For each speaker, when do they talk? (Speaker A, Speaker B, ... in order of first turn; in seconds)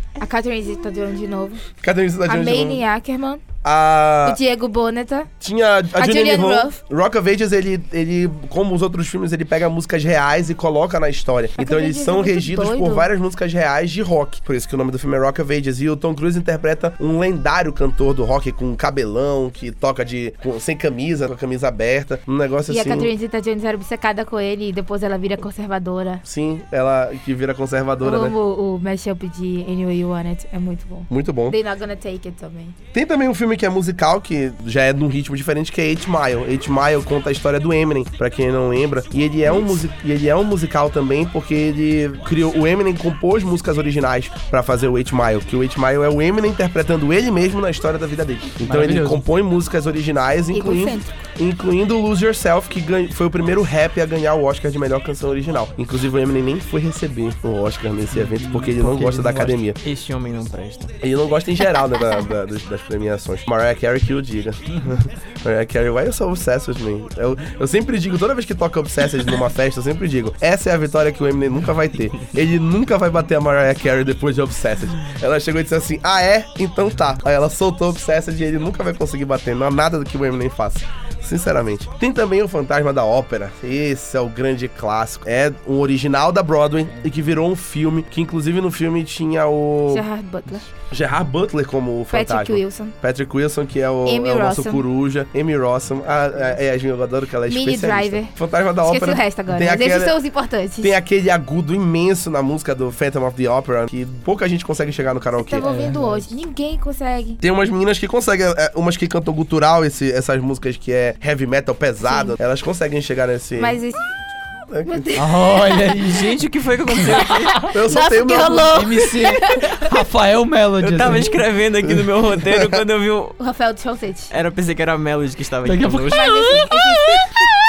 Speaker A: 0.2-1.6, 2.3-3.4, 4.2-5.3, 5.9-6.8, 11.6-13.1, 22.7-26.2, 28.0-32.8, 50.5-51.2, 89.9-90.7, 92.1-92.9, 94.0-94.8, 97.5-101.0, 105.4-107.4, 112.0-112.4, 113.6-114.1, 114.9-115.8, 117.7-119.9, 123.4-124.3, 126.1-127.6
Speaker B: 1.8-2.8, 3.6-4.4, 5.4-23.1, 26.2-28.4, 31.1-31.6, 32.9-59.8, 61.0-90.1, 90.9-100.2, 100.8-105.7, 107.4-113.8, 114.7-115.1, 117.7-118.9, 121.8-122.8
Speaker C: 48.6-49.3, 58.1-59.6, 105.6-106.3, 115.1-116.4, 117.0-117.7, 118.7-121.4, 125.6-126.8
Speaker D: 59.8-60.9, 115.9-117.7, 120.8-123.4, 124.3-126.6